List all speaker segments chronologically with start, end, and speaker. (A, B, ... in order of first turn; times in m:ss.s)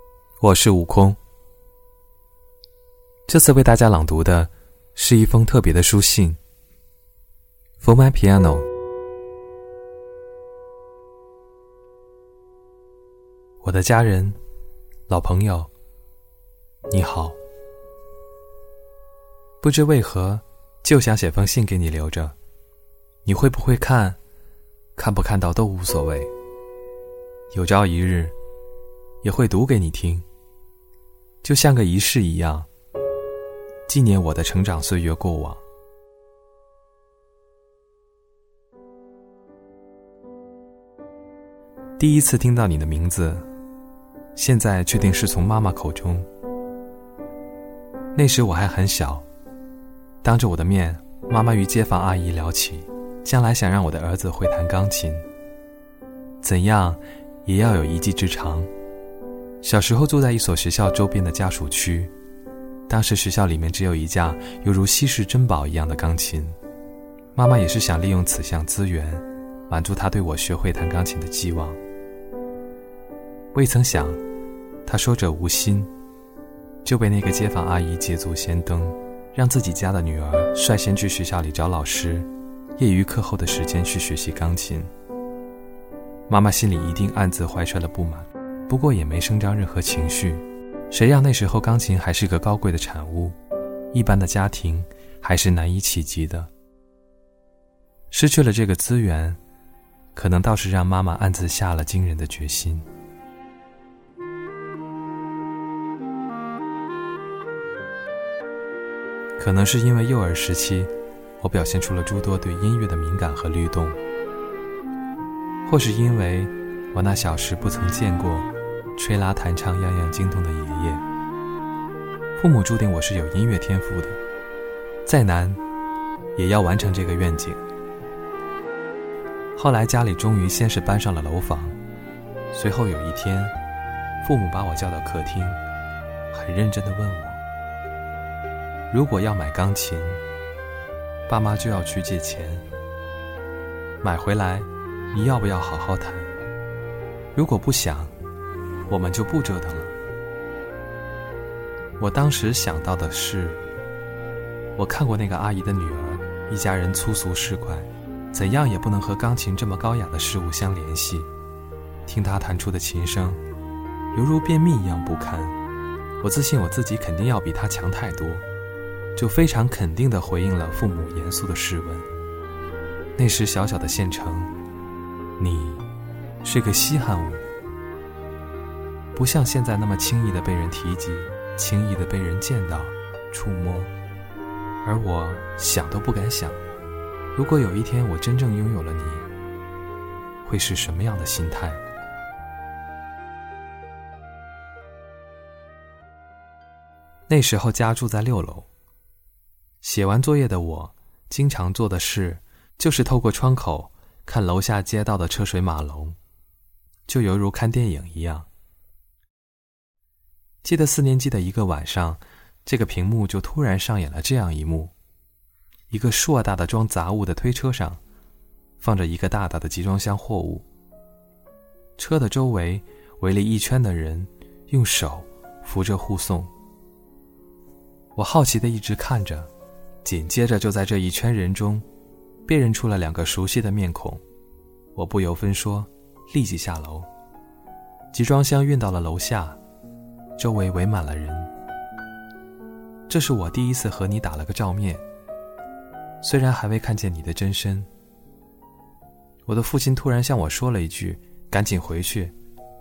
0:00.4-0:01.2 A
0:03.3-0:06.4 A
0:07.8-0:08.6 A
0:13.6-0:14.4 A
0:15.1-0:15.7 A
0:16.9-0:17.4 A
0:19.6-0:22.4 A
0:23.2-0:24.2 A
0:25.0-0:26.3 A
0:27.5-0:28.3 A
0:29.2-0:30.2 A
0:31.4-0:32.7 A
0:33.9-0:35.6 A
0:42.0-0:43.5 A
0:44.3-0:46.3 A
0:48.1-0:49.2 A
0:50.2-0:55.2 A
0:56.4-0:58.7 A
0:59.6-1:02.1 A
1:02.9-1:06.6 A
1:07.3-1:11.8 A
1:13.5-1:14.2 A
1:14.8-1:15.9 A
1:16.8-1:24.9 A
1:26.3-1:33.4 A
1:33.9-1:36.5 A
1:38.1-1:39.4 A
1:40.1-1:42.8 A
1:49.4-1:54.0 A
1:55.6-2:01.0 A
2:02.4-2:04.2 A
2:05.0-2:05.6 A
2:06.4-2:07.6 A
2:09.6-2:11.8 A
2:12.5-2:13.6 A
2:14.2-2:15.6 A
2:16.3-2:17.4 A
2:18.9-2:20.2 A
2:21.3-2:22.6 A
2:24.0-2:26.3 A
2:27.3-2:28.1 A
2:28.9-2:29.9 A
2:32.0-2:33.6 A
2:34.8-2:41.3 A
2:42.0-2:43.4 A
2:44.1-2:45.6 A
2:46.2-2:48.4 A
2:49.2-2:52.1 A
2:53.2-2:54.5 A
2:55.4-2:55.8 A
2:56.4-2:57.4 A
2:59.1-3:03.9 A
3:04.8-3:06.6 A
3:07.3-3:09.3 A
3:10.4-3:11.8 A
3:17.3-3:18.7 A
3:19.8-3:26.2 A
3:27.1-3:28.5 A
3:30.6-3:34.9 A
3:35.9-3:38.0 A
3:38.8-3:40.7 A
3:42.0-3:46.5 A
3:48.2-3:49.5 A
3:50.0-3:51.8 A
3:52.4-3:54.2 A
3:54.9-3:57.1 A
3:58.1-3:59.6 A
4:00.4-4:01.5 A
4:03.1-4:05.0 A
4:06.2-4:07.9 A
4:09.5-4:12.3 A